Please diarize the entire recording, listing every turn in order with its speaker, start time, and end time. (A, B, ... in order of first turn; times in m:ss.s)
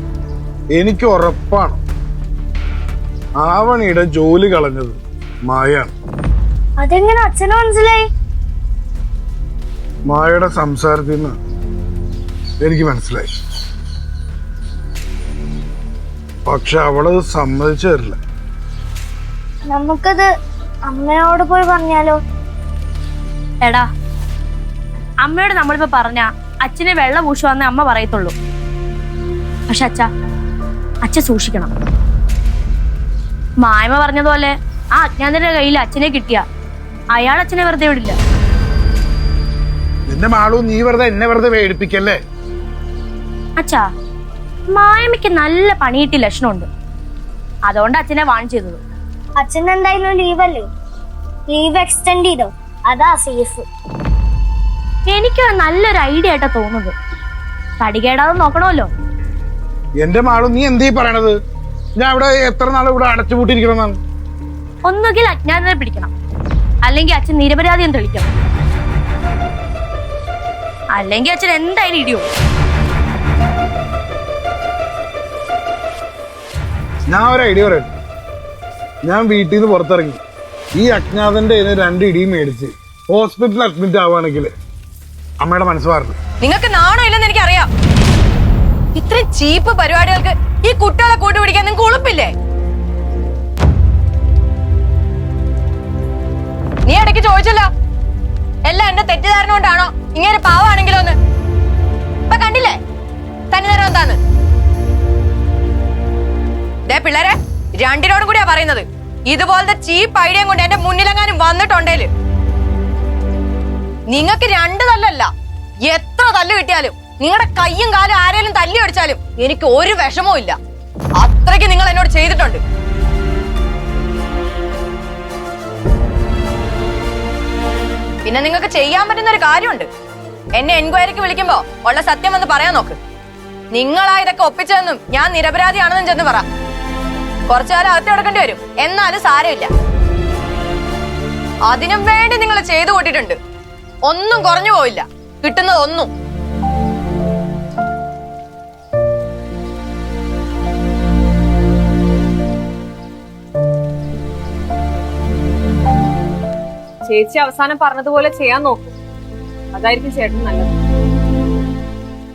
0:00.7-0:01.8 A
0:03.4-0:05.9 A
0:06.8-0:08.0 B
0:10.1-0:11.4 A
0:12.6-0:13.3 A
0:16.5-0:18.2 A
0:19.7-0:20.3 B
0:20.9-0:22.2 B
0:23.6-0:23.9 C
0:25.2-0:28.3 C
0:29.7-0:30.1 C
0:31.0-0:31.7 C
0:33.6-0:36.4 C
0:37.1-0:38.2 C
0:40.1-0:42.2 A
0:43.6-0:43.9 C
0:44.7-0:46.7 C
0:47.6-0:48.8 C
0:49.4-0:50.7 B
0:51.5-0:53.6 B
0:55.1-0:56.9 C
0:57.8-0:58.9 C
1:00.0-1:01.4 A
1:02.0-1:04.0 A
1:04.8-1:06.1 C
1:06.8-1:08.3 C
1:10.9-1:12.3 C
1:17.1-1:17.9 A
1:19.0-1:20.2 A
1:20.8-1:24.5 A
1:25.4-1:26.1 A
1:26.4-1:27.7 D
1:28.9-1:32.3 D
1:36.8-1:37.7 D
1:38.6-1:41.2 D
1:42.3-1:42.8 D
1:43.5-1:44.2 D
1:46.9-1:52.1 D
1:54.1-1:55.3 D
1:55.9-2:00.6 D
2:01.2-2:02.6 D
2:08.2-2:09.9 D
2:10.6-2:13.0 D
2:13.7-2:16.4 D
2:17.5-2:19.7 D
2:21.6-2:23.4 D
2:24.0-2:26.1 D
2:37.1-2:38.9 E
2:39.7-2:40.7 E